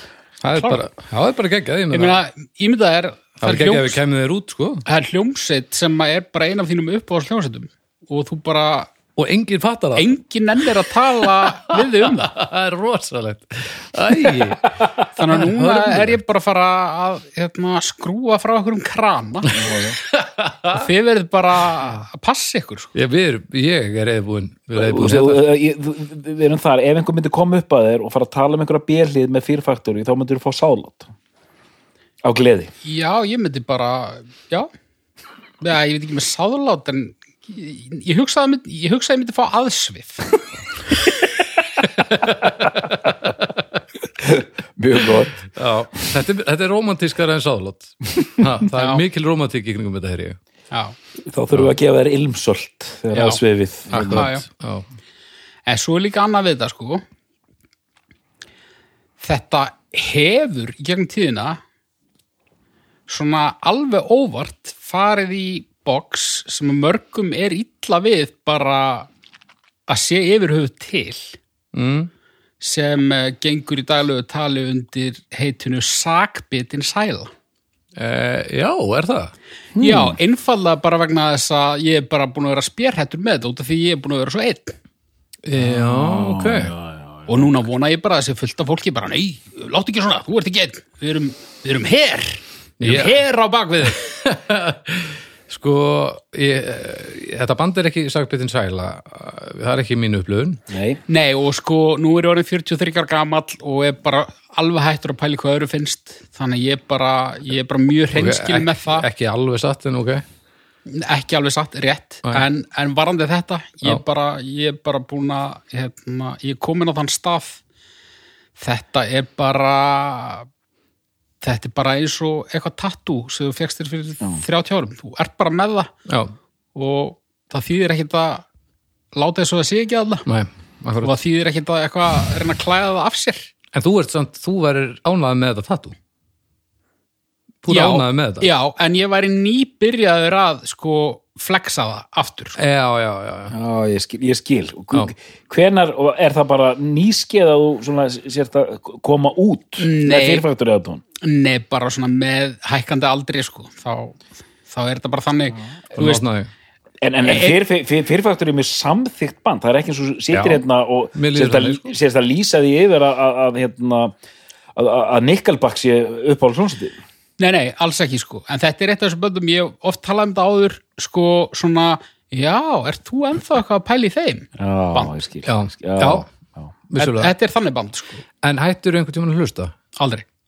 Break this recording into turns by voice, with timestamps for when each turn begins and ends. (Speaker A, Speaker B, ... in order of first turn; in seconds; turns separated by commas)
Speaker A: 0.4-2.2, Speaker B: 0.5-0.8, Speaker B: 1.9-4.0, Speaker A: 3.4-4.8, Speaker B: 4.8-8.9, Speaker A: 9.2-10.1, Speaker B: 9.9-12.3, Speaker A: 11.3-16.2, Speaker B: 15.1-19.5, Speaker C: 19.5-20.0, Speaker A: 20.1-20.9, Speaker B: 20.7-22.9, Speaker A: 22.9-25.4, Speaker C: 24.7-31.1, Speaker C: 32.2-32.7, Speaker B: 32.8-34.7, Speaker B: 35.6-40.3, Speaker A: 42.0-43.5, Speaker C: 44.2-45.5, Speaker A: 45.5-50.4, Speaker B: 48.7-49.0, Speaker B: 50.7-51.0, Speaker C: 51.2-54.3, Speaker B: 53.1-53.4, Speaker A: 53.9-54.8, Speaker B: 54.1-54.5, Speaker B: 55.6-57.0, Speaker B: 59.2-61.6, Speaker B: 63.1-69.1, Speaker B: 69.9-71.4, Speaker A: 71.7-72.1, Speaker B: 72.6-77.3, Speaker A: 78.0-79.3, Speaker C: 79.7-80.2, Speaker B: 79.8-84.8, Speaker A: 85.4-86.7, Speaker C: 85.6-87.5, Speaker B: 87.3-94.0, Speaker A: 92.8-93.2, Speaker A: 93.9-100.6, Speaker C: 100.7-101.0, Speaker B: 101.1-109.0, Speaker A: 108.1-110.2, Speaker B: 110.9-117.6, Speaker B: 118.6-120.5, Speaker B: 121.4-125.9, Speaker A: 126.1-126.3, Speaker B: 126.7-128.4, Speaker B: 129.1-130.2, Speaker A: 130.2-131.2, Speaker B: 131.0-133.5, Speaker A: 133.7-135.9, Speaker A: 137.6-138.5, Speaker B: 137.7-142.6, Speaker A: 142.6-143.5, Speaker C: 143.5-151.0, Speaker B: 149.8-150.4, Speaker B: 151.2-154.2, Speaker B: 154.7-156.2, Speaker A: 155.9-156.5, Speaker C: 157.0-164.1, Speaker B: 157.2-157.6, Speaker A: 160.3-160.6, Speaker A: 161.1-161.8, Speaker C: 164.7-167.0, Speaker B: 167.4-175.2, Speaker C: 174.6-176.7, Speaker A: 175.4-176.2, Speaker A: 176.9-177.3, Speaker B: 176.9-178.2, Speaker A: 178.4-179.7, Speaker B: 179.9-180.2